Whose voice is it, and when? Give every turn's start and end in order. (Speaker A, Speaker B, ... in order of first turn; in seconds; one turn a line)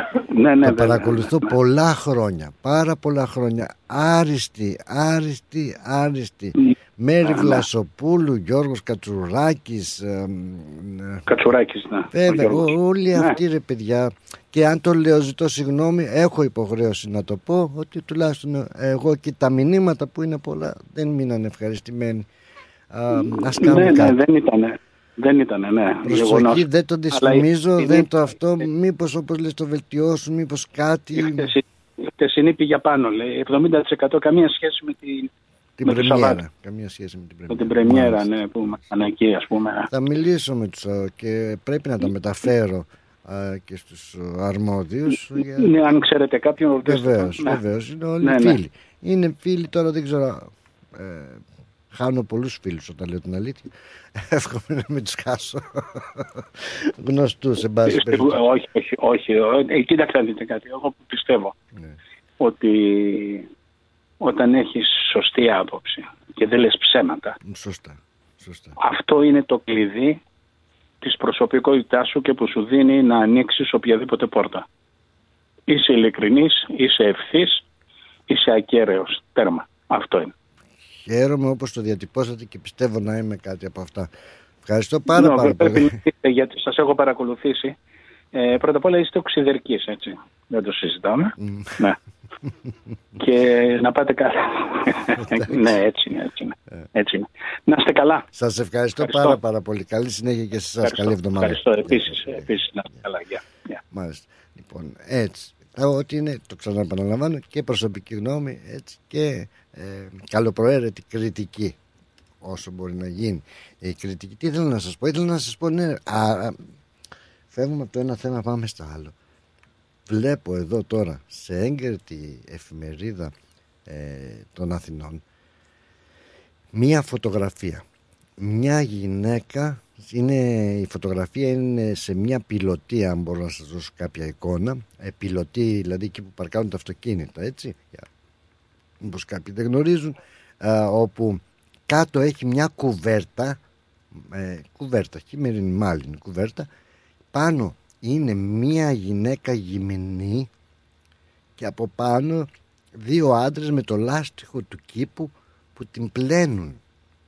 Speaker A: 0.3-1.5
Speaker B: 0.6-11.3
Speaker A: 6.6-7.6
Speaker A: 11.3-13.4
Speaker B: 12.1-22.2
Speaker B: 22.9-24.1
Speaker A: 23.1-28.1
Speaker B: 26.1-31.5
Speaker A: 31.1-35.3
Speaker B: 35.8-38.2
Speaker A: 35.8-36.4
Speaker A: 37.5-39.9
Speaker B: 39.9-45.7
Speaker A: 45.6-47.6
Speaker B: 46.8-58.4
Speaker A: 48.2-48.6
Speaker A: 57.9-61.5
Speaker A: 62.4-63.5
Speaker A: 64.2-67.3
Speaker B: 67.4-68.8
Speaker A: 68.8-70.2
Speaker A: 71.0-74.6
Speaker A: 75.7-77.6
Speaker A: 78.3-80.3
Speaker B: 80.9-84.1
Speaker B: 84.6-85.9
Speaker A: 85.1-87.7
Speaker A: 88.3-92.0
Speaker B: 91.4-91.8
Speaker A: 93.2-98.2
Speaker B: 95.3-95.5
Speaker B: 98.3-103.0
Speaker A: 99.0-99.4
Speaker A: 100.8-103.8
Speaker B: 103.9-111.8
Speaker B: 112.4-116.6
Speaker B: 117.5-119.1
Speaker B: 120.1-123.3
Speaker B: 123.8-125.2
Speaker B: 126.7-127.8
Speaker B: 128.4-138.1
Speaker B: 139.0-143.6
Speaker B: 144.1-146.7
Speaker B: 147.3-150.5
Speaker B: 151.6-156.8